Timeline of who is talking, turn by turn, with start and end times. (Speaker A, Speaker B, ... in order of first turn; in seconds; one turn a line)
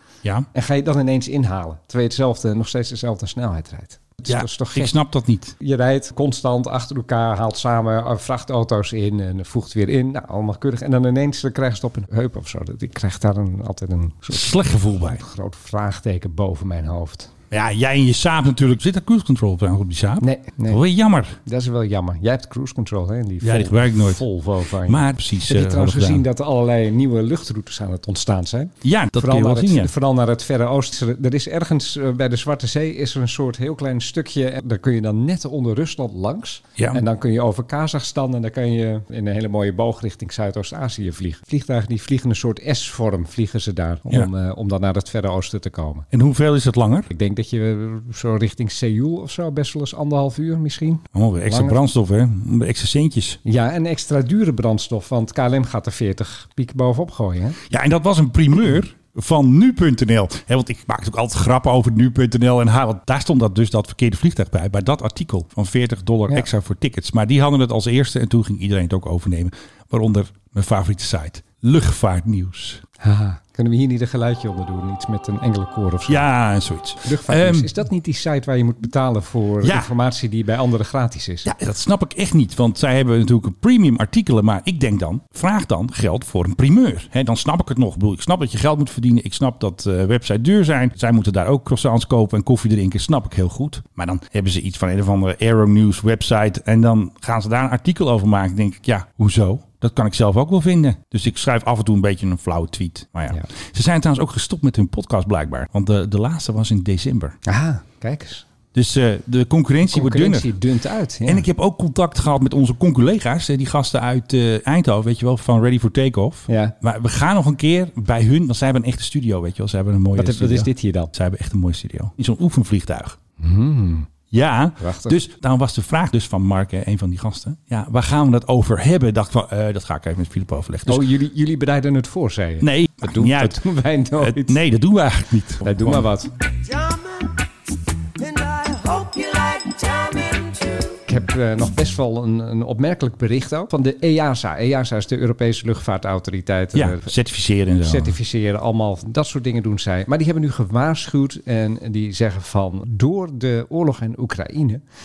Speaker A: 0.5-5.0
Speaker B: 4.3-5.5
Speaker A: 5.6-17.3
Speaker B: 14.3-15.2
Speaker B: 17.5-21.4
Speaker A: 20.2-20.8
Speaker A: 21.4-46.1
Speaker B: 23.4-24.2
Speaker B: 24.8-26.2
Speaker B: 28.8-29.9
Speaker B: 36.8-37.0
Speaker B: 46.1-47.1
Speaker A: 47.1-51.8
Speaker B: 51.1-53.4
Speaker A: 53.5-57.6
Speaker B: 57.7-72.8
Speaker A: 73.0-76.3
Speaker B: 76.1-77.7
Speaker A: 77.0-81.5
Speaker B: 79.6-79.9
Speaker B: 81.5-107.4
Speaker A: 107.5-108.5
Speaker B: 108.7-110.5
Speaker A: 109.8-111.5
Speaker B: 111.2-123.2
Speaker A: 116.5-116.7
Speaker A: 120.2-121.1
Speaker A: 123.4-124.1
Speaker B: 124.3-131.1
Speaker A: 124.8-125.2
Speaker A: 130.9-134.6
Speaker B: 132.6-136.1
Speaker A: 135.6-136.3
Speaker C: 136.6-137.4
Speaker C: 138.2-141.0
Speaker A: 141.1-147.1
Speaker B: 146.7-148.2
Speaker A: 147.8-154.8